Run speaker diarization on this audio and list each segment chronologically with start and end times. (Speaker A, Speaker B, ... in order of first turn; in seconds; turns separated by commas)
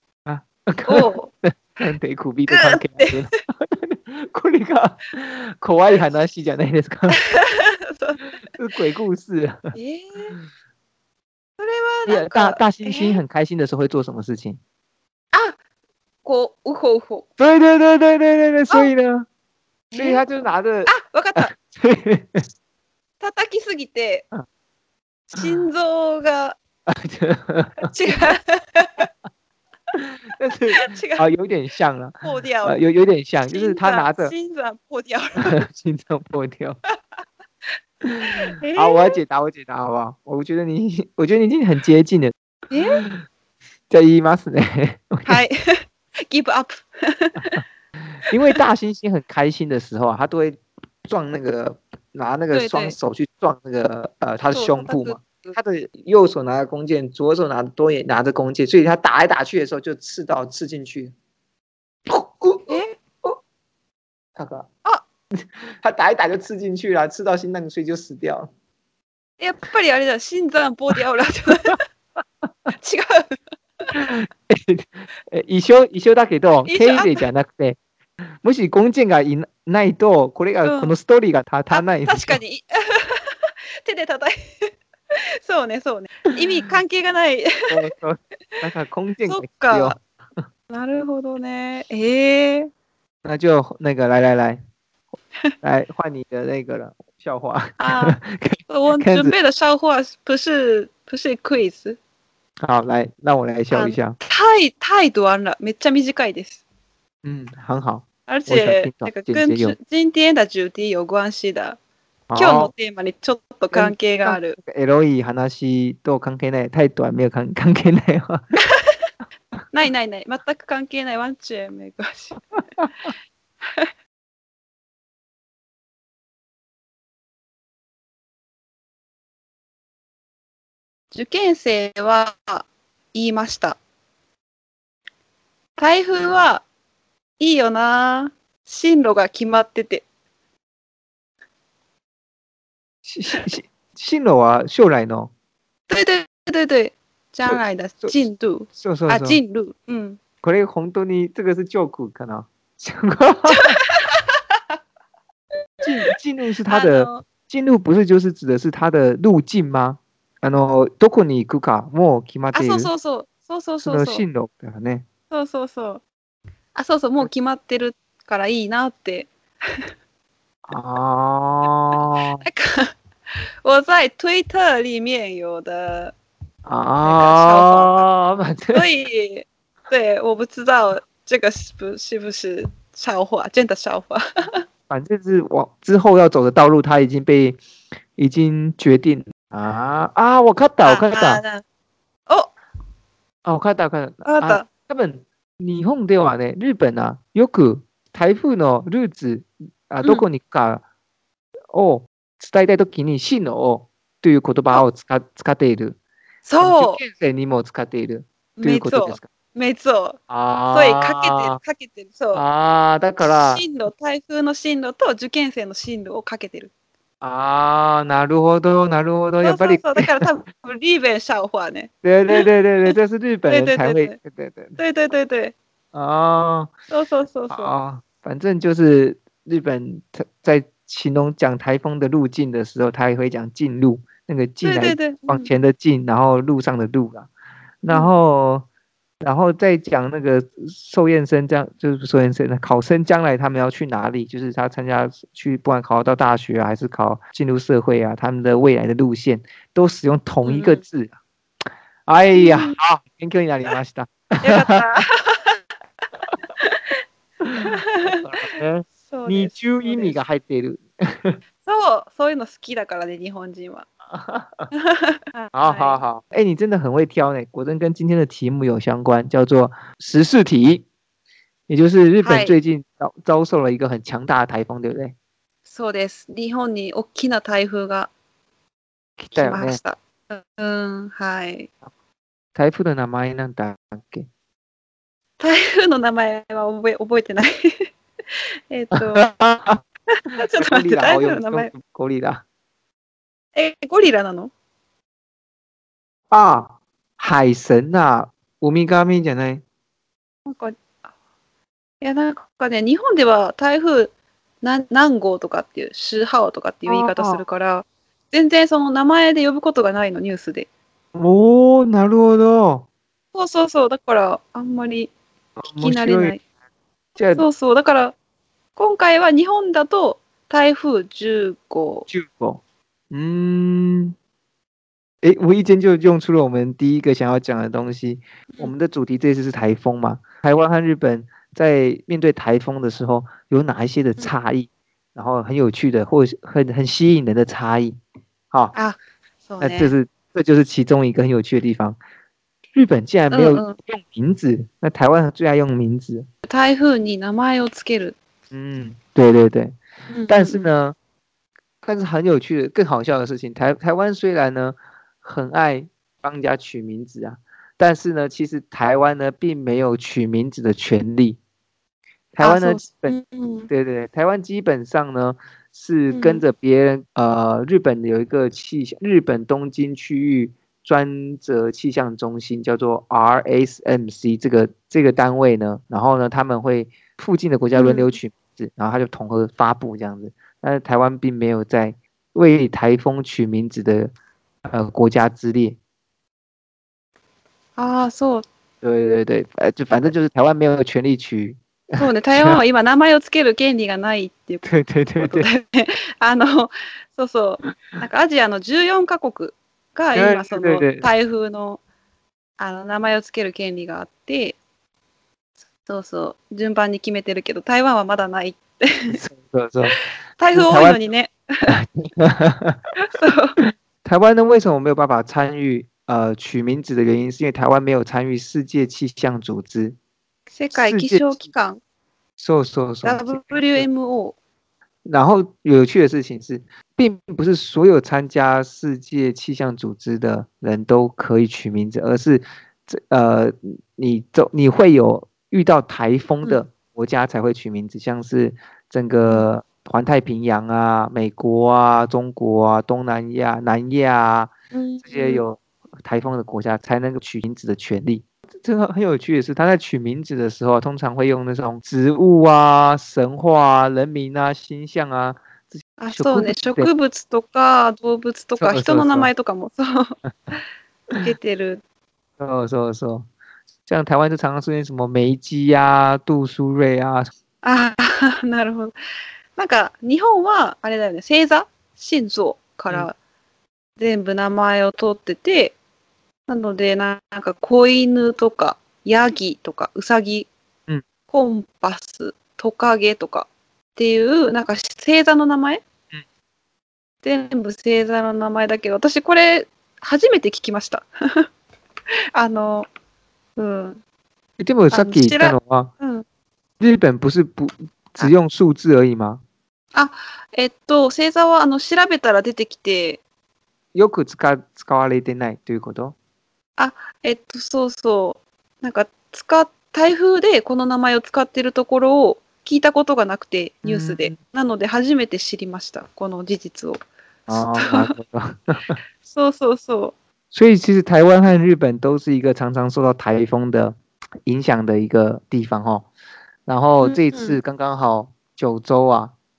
Speaker A: 0.2-7.2, Speaker B: 0.9-1.3, Speaker B: 2.5-3.2, Speaker B: 7.2-8.2, Speaker A: 8.5-9.7, Speaker B: 9.7-10.3, Speaker B: 11.6-13.2, Speaker A: 12.1-14.6, Speaker B: 16.2-17.3, Speaker A: 17.4-19.3, Speaker B: 19.9-20.2, Speaker A: 19.9-22.5, Speaker B: 20.9-21.5, Speaker B: 23.2-24.2, Speaker B: 25.3-26.6, Speaker A: 26.9-28.3, Speaker B: 27.9-29.1, Speaker A: 29.9-34.3, Speaker B: 30.7-31.2, Speaker B: 32.2-32.8, Speaker B: 33.5-35.6, Speaker A: 35.4-36.8, Speaker A: 38.0-43.2, Speaker B: 38.5-39.2, Speaker B: 42.7-43.0, Speaker A: 43.9-45.4, Speaker B: 45.2-47.6, Speaker A: 48.2-61.1, Speaker B: 52.5-53.0, Speaker B: 54.5-55.5, Speaker A: 62.1-63.4, Speaker A: 64.4-64.7, Speaker A: 65.4-68.5, Speaker B: 69.4-71.8, Speaker B: 72.7-73.4, Speaker A: 73.9-77.8, Speaker B: 76.7-77.2, Speaker A: 78.4-82.4, Speaker B: 80.6-80.9, Speaker B: 81.7-87.7, Speaker A: 87.7-90.0, Speaker B: 89.3-90.0, Speaker B: 90.7-92.7, Speaker A: 93.2-94.6, Speaker A: 95.6-99.3, Speaker B: 97.8-98.2, Speaker B: 98.7-102.0, Speaker A: 102.6-104.2, Speaker B: 103.7-106.6, Speaker A: 107.2-109.7, Speaker B: 108.3-111.8, Speaker A: 112.3-112.7, Speaker B: 112.3-114.6, Speaker A: 113.7-118.4, Speaker B: 118.6-119.1, Speaker B: 119.7-122.6, Speaker B: 123.6-123.9, Speaker B: 131.1-133.8, Speaker B: 135.8-136.6, Speaker B: 137.4-140.0, Speaker A: 143.1-145.3, Speaker B: 145.9-150.2, Speaker A: 147.4-148.2, Speaker A: 148.7-149.4, Speaker A: 150.4-153.8, Speaker B: 153.5-154.4, Speaker A: 155.8-162.9, Speaker B: 156.7-157.2, Speaker B: 162.5-164.2, Speaker A: 163.8-165.1, Speaker B: 165.3-166.0, Speaker B: 166.7-169.9, Speaker A: 170.7-172.4, Speaker B: 172.4-172.9, Speaker B: 173.6-176.1, Speaker A: 176.7-178.8, Speaker B: 177.0-178.1, Speaker B: 178.7-184.6, Speaker A: 184.9-187.6, Speaker A: 188.2-191.4, Speaker B: 190.8-191.6, Speaker A: 193.4-200.8, Speaker B: 194.2-194.7, Speaker A: 201.7-206.0, Speaker B: 206.4-207.0, Speaker A: 206.6-209.3, Speaker B: 208.6-210.2, Speaker A: 210.3-211.6, Speaker B: 210.7-212.4, Speaker A: 212.3-213.6, Speaker B: 213.2-216.7, Speaker A: 217.2-220.3, Speaker B: 219.4-222.9, Speaker A: 222.0-224.8, Speaker B: 223.5-224.2, Speaker B: 224.8-225.5, Speaker A: 225.9-226.7, Speaker B: 226.9-227.7, Speaker A: 227.5-237.3, Speaker B: 234.6-235.5, Speaker A: 237.8-238.7, Speaker A: 239.2-251.2, Speaker B: 250.4-250.8, Speaker A: 252.1-254.8, Speaker B: 252.3-252.8, Speaker B: 254.4-255.6, Speaker B: 256.6-257.0, Speaker A: 257.4-261.4, Speaker B: 257.6-258.6, Speaker B: 259.1-260.2, Speaker B: 261.6-263.9, Speaker A: 264.1-264.7, Speaker B: 264.7-266.0, Speaker A: 265.5-270.9, Speaker A: 271.7-275.1, Speaker B: 272.2-272.6, Speaker B: 275.6-278.1, Speaker A: 279.2-279.8, Speaker B: 279.3-281.7, Speaker A: 282.5-284.3, Speaker B: 285.4-289.3, Speaker A: 288.9-289.8, Speaker B: 290.3-291.7, Speaker A: 290.4-292.4, Speaker B: 293.5-294.5, Speaker A: 296.3-299.6, Speaker B: 300.4-300.8, Speaker B: 302.0-310.7, Speaker A: 306.9-307.4, Speaker A: 311.1-312.9, Speaker B: 313.3-315.1, Speaker A: 315.6-316.4, Speaker B: 315.7-316.4, Speaker A: 317.1-317.5, Speaker B: 317.3-318.1, Speaker B: 318.8-322.1, Speaker A: 322.1-324.1, Speaker A: 325.2-338.0, Speaker B: 339.5-339.9, Speaker A: 339.6-342.0, Speaker A: 342.7-346.3, Speaker B: 343.3-343.7, Speaker B: 346.4-348.1, Speaker A: 348.5-350.9, Speaker B: 350.1-350.7, Speaker A: 351.8-361.4, Speaker A: 362.3-363.1, Speaker B: 362.4-363.7, Speaker A: 363.7-384.1, Speaker B: 366.1-366.4, Speaker B: 377.7-378.1, Speaker A: 384.6-385.8, Speaker B: 387.8-388.4, Speaker A: 388.8-392.6, Speaker B: 392.0-394.6, Speaker A: 394.6-395.5, Speaker B: 395.2-401.8, Speaker A: 400.1-401.1, Speaker B: 402.6-404.6, Speaker B: 405.8-409.2, Speaker A: 409.1-410.0, Speaker B: 409.9-411.7, Speaker A: 410.5-411.0, Speaker A: 411.7-412.8, Speaker B: 413.0-413.6, Speaker A: 413.6-420.0, Speaker B: 420.5-421.8, Speaker A: 420.7-421.4, Speaker A: 422.4-423.9, Speaker B: 423.0-424.4, Speaker A: 425.0-456.9, Speaker B: 444.7-445.4, Speaker B: 456.0-460.1, Speaker A: 458.6-459.3, Speaker B: 461.2-461.8, Speaker A: 462.4-463.3, Speaker A: 463.9-467.3, Speaker B: 467.6-468.9, Speaker B: 469.6-473.1, Speaker B: 474.0-475.8, Speaker B: 476.5-480.5, Speaker B: 481.3-485.8, Speaker B: 487.2-491.5, Speaker B: 492.3-492.9, Speaker B: 493.6-494.0, Speaker A: 494.6-495.9, Speaker B: 494.9-496.2, Speaker A: 496.8-499.4, Speaker B: 499.9-503.2, Speaker A: 503.9-506.1, Speaker B: 506.8-518.1, Speaker A: 513.8-514.4, Speaker A: 517.5-519.0, Speaker B: 519.2-520.1, Speaker A: 520.5-526.1, Speaker A: 526.6-529.3, Speaker B: 527.0-527.6